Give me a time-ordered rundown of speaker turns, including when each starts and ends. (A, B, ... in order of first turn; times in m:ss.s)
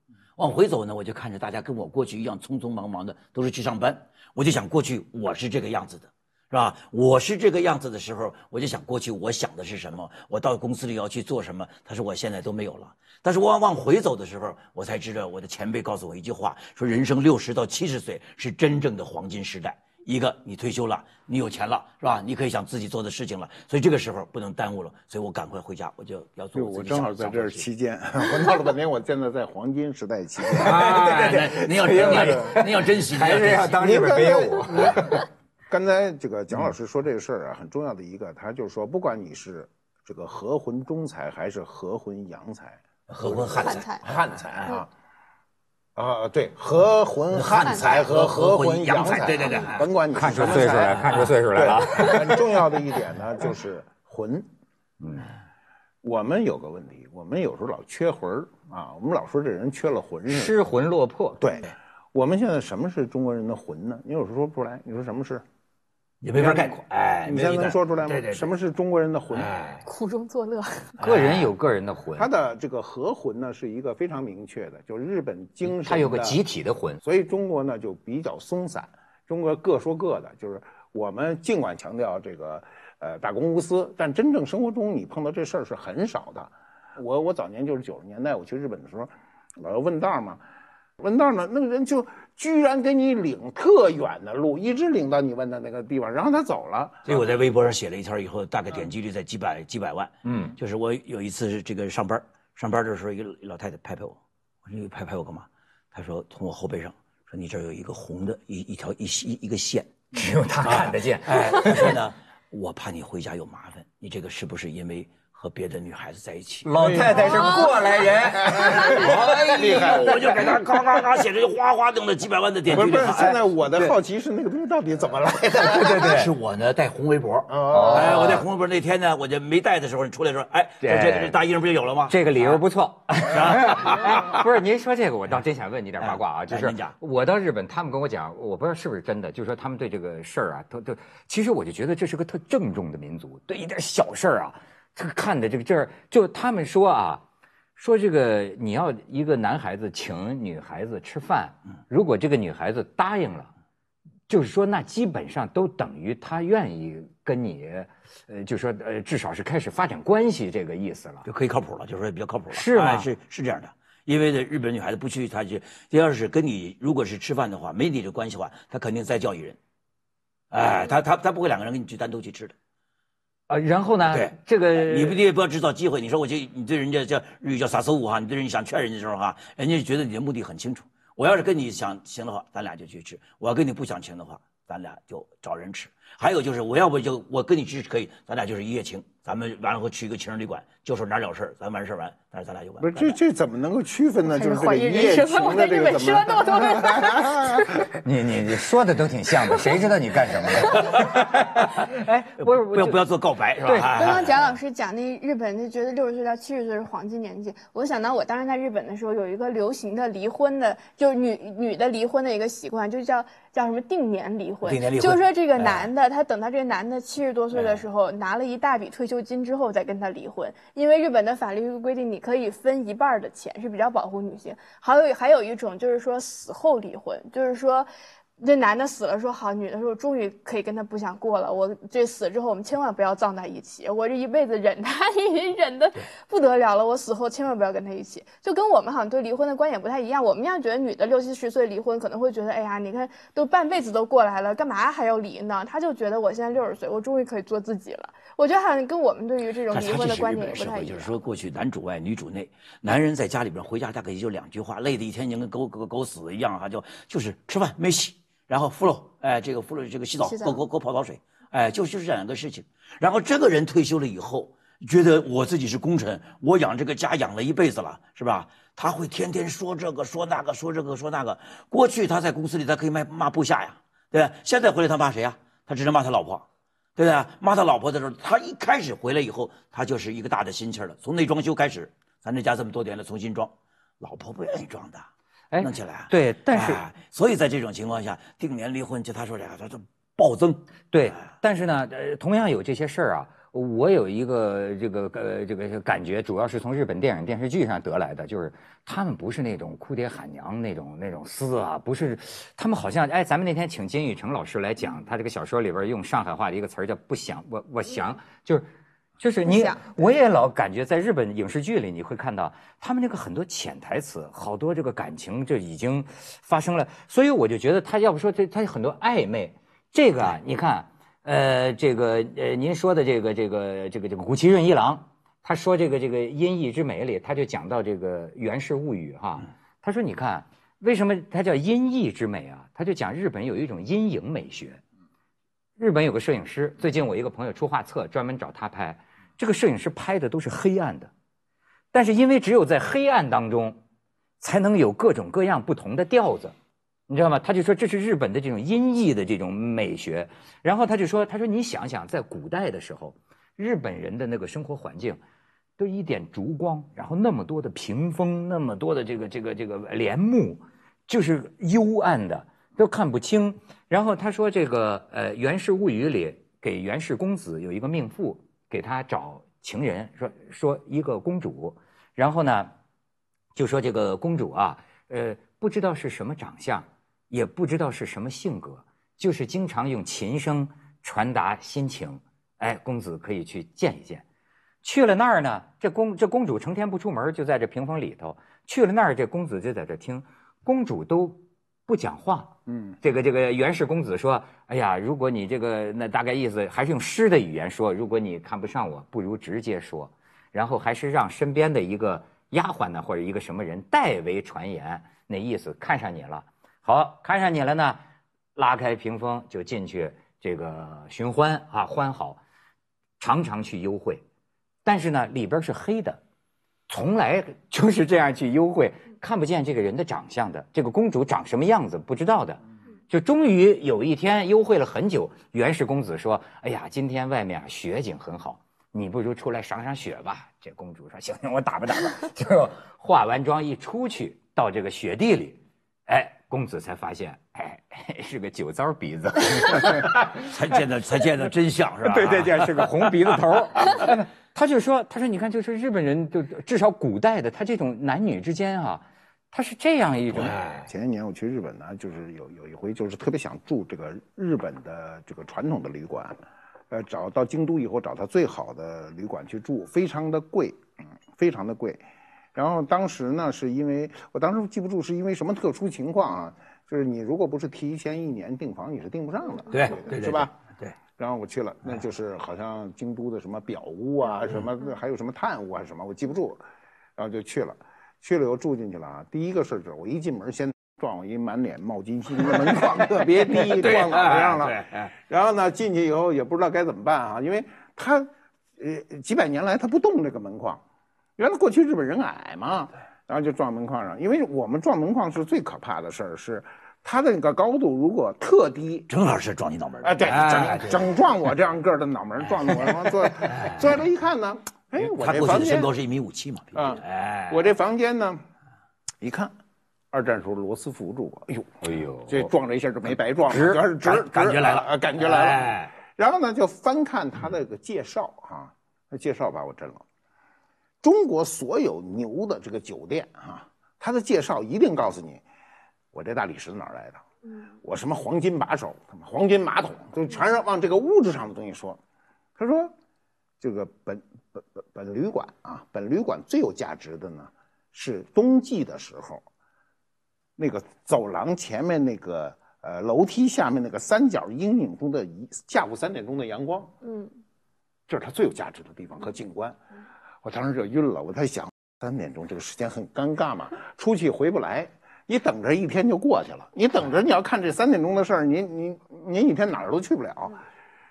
0:00.4-0:27.6 A
0:26.5-0:31.1 B
0:30.5-0:33.8 A
0:30.6-0:35.2 C
0:31.8-0:32.6 B
0:33.8-0:44.9 B
0:43.1-0:44.7 A
0:43.6-0:44.0 D
0:46.0-0:54.5 B
0:47.3-0:49.9 A
0:47.6-0:48.0 D
0:49.4-0:49.7 D
0:50.1-0:52.6 C
0:55.0-0:55.3 C
0:56.0-1:00.6 B
1:00.3-1:01.4 C
1:01.4-1:05.4 B
1:06.2-1:08.5 A
1:06.4-1:09.6 B
1:09.3-1:09.8 A
1:09.8-1:10.9 D
1:11.0-1:11.5 A
1:11.0-1:12.3 C
1:12.2-1:16.4 B
1:15.6-1:17.0 C
1:17.0-1:30.4 B
1:31.0-1:37.3 B
1:37.0-1:50.1 A
1:40.2-1:40.6 C
1:50.1-1:52.0 C
1:50.6-1:56.7 A
1:56.6-2:00.1 C
1:56.7-2:01.2 B
1:58.5-2:03.4 A
2:02.7-2:06.2 B
2:05.6-2:06.3 C
2:06.1-2:12.6 A
2:07.5-2:08.5 B
2:07.7-2:08.4 C
2:10.8-2:11.4 C
2:12.1-2:27.2 C
2:13.2-2:14.4 A
2:16.0-2:17.0 A
2:27.8-2:33.5 C
2:34.3-2:41.2 C
2:41.2-2:49.6 A
2:42.5-2:43.1 C
2:50.5-2:52.5 A
2:53.5-2:55.2 C
2:54.1-3:13.2 A
3:12.8-3:17.9 B
3:14.3-3:17.8 D
3:17.9-3:23.0 C
3:20.6-3:20.9 D
3:20.7-3:24.6 A
3:23.6-3:23.9 C
3:23.9-4:11.2 D
3:34.6-3:35.9 A
3:37.5-3:37.8 A
4:09.7-4:36.4 A
4:20.2-4:20.6 D
4:37.0-4:45.1 A
4:45.5-4:46.8 C
4:45.6-4:51.2 A
4:50.9-5:08.7 C
5:09.2-5:34.8 C
5:09.4-5:09.8 D
5:35.8-5:41.1 C
5:41.9-5:43.8 C
5:44.4-5:46.5 C
5:47.1-5:55.2 C
5:55.8-6:12.7 C
6:13.5-6:24.2 C
6:24.8-6:48.0 C
6:32.7-6:32.9 B
6:48.6-6:52.4 C
6:53.2-6:54.2 C
6:54.8-6:56.2 C
6:56.9-7:20.5 C
7:19.9-7:22.7 A
7:22.1-7:23.0 B
7:22.2-7:30.6 C
7:30.3-7:30.9 A
7:30.7-7:42.0 B
7:42.5-7:50.5 B
7:49.7-7:50.9 A
7:51.2-7:56.6 B
7:57.2-8:10.8 B
8:03.5-8:05.1 A
8:11.4-8:19.1 B
8:19.1-8:21.1 A
8:20.0-8:25.9 B
8:23.4-8:23.9 A
8:25.0-8:27.6 A
8:26.7-8:28.4 B
8:29.2-8:29.5 B
8:30.1-8:40.0 B
8:31.8-8:32.5 C
8:33.5-8:33.8 C
8:34.0-8:35.9 A
8:41.0-8:45.4 B
8:46.1-8:47.2 B
8:47.8-8:52.0 B
8:52.6-8:52.9 B
8:53.6-8:59.4 B
9:00.6-9:06.9 B
9:07.0-9:07.3 D
9:08.1-9:09.8 B
9:10.4-9:20.6 B